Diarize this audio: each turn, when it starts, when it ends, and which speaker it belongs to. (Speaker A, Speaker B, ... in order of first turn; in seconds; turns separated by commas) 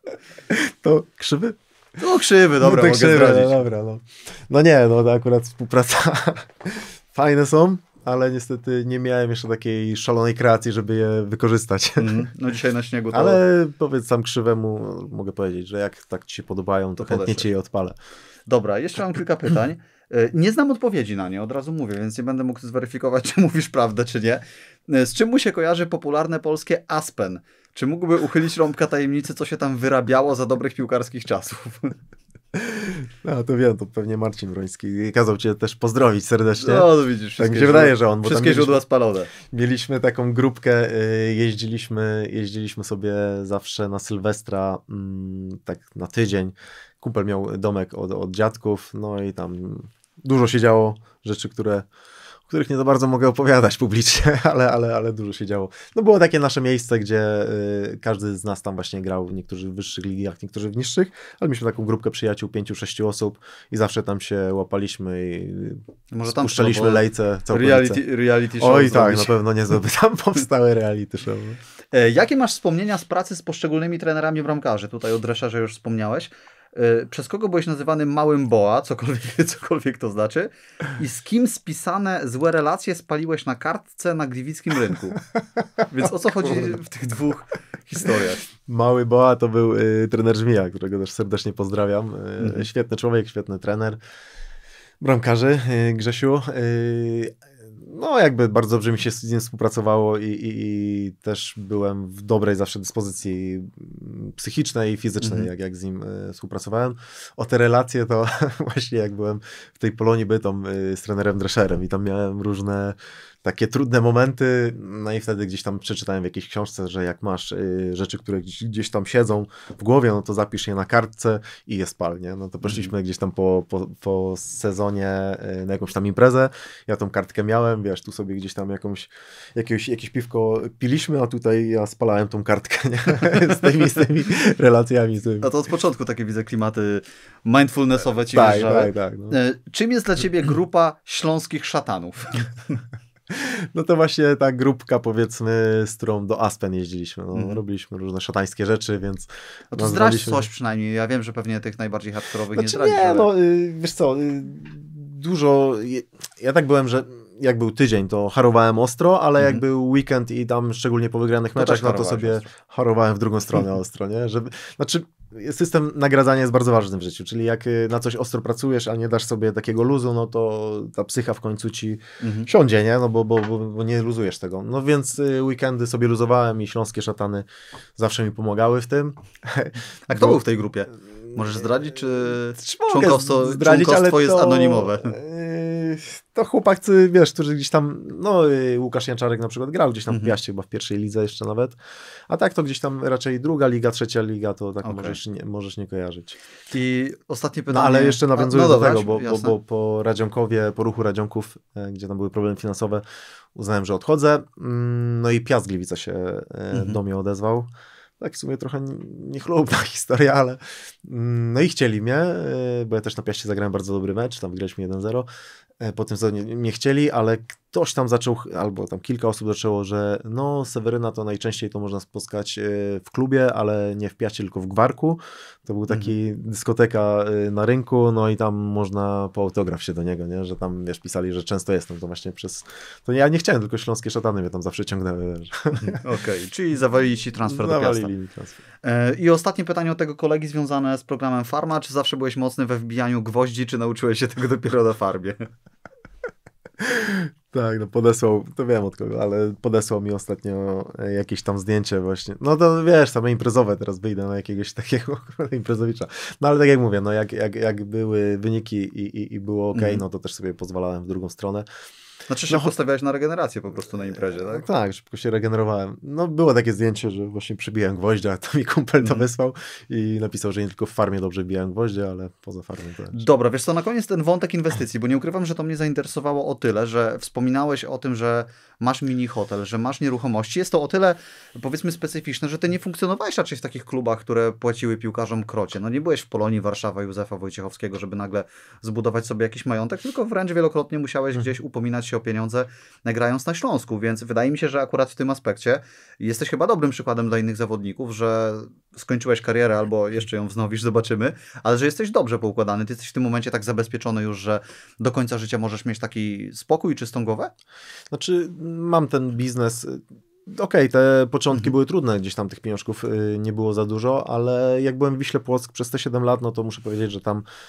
Speaker A: 0.5-1.6, Speaker B: 2.0-3.6, Speaker A: 2.6-12.3, Speaker B: 12.0-13.4, Speaker A: 13.1-18.0, Speaker B: 17.0-17.5, Speaker B: 18.5-32.0, Speaker A: 32.5-38.8, Speaker B: 36.6-39.3, Speaker A: 39.5-51.9, Speaker A: 52.5-68.0, Speaker B: 66.1-69.4, Speaker A: 68.6-71.6, Speaker B: 71.9-85.2, Speaker B: 85.9-88.5, Speaker A: 86.1-86.7, Speaker A: 88.7-94.0, Speaker B: 92.4-92.7, Speaker A: 95.0-135.5, Speaker B: 105.2-105.5, Speaker B: 122.6-122.9, Speaker B: 135.4-142.8, Speaker A: 138.3-139.4, Speaker A: 143.3-150.5, Speaker B: 147.3-147.6, Speaker B: 149.7-153.3, Speaker A: 152.5-180.4, Speaker B: 159.4-159.6, Speaker B: 161.6-162.5, Speaker B: 172.2-172.5, Speaker B: 180.1-185.2, Speaker A: 182.6-191.8, Speaker B: 190.1-190.3, Speaker A: 192.3-196.4, Speaker B: 194.8-195.2, Speaker B: 196.7-199.6, Speaker A: 197.7-203.0, Speaker A: 203.6-207.7, Speaker B: 206.7-207.0, Speaker A: 208.2-215.3, Speaker A: 215.8-236.0, Speaker B: 236.0-238.1, Speaker A: 237.5-238.6, Speaker B: 238.8-245.5, Speaker A: 246.8-261.7, Speaker B: 259.7-260.0, Speaker B: 262.3-264.7, Speaker A: 264.4-273.2, Speaker B: 269.0-269.3, Speaker B: 273.1-307.5, Speaker A: 308.1-317.4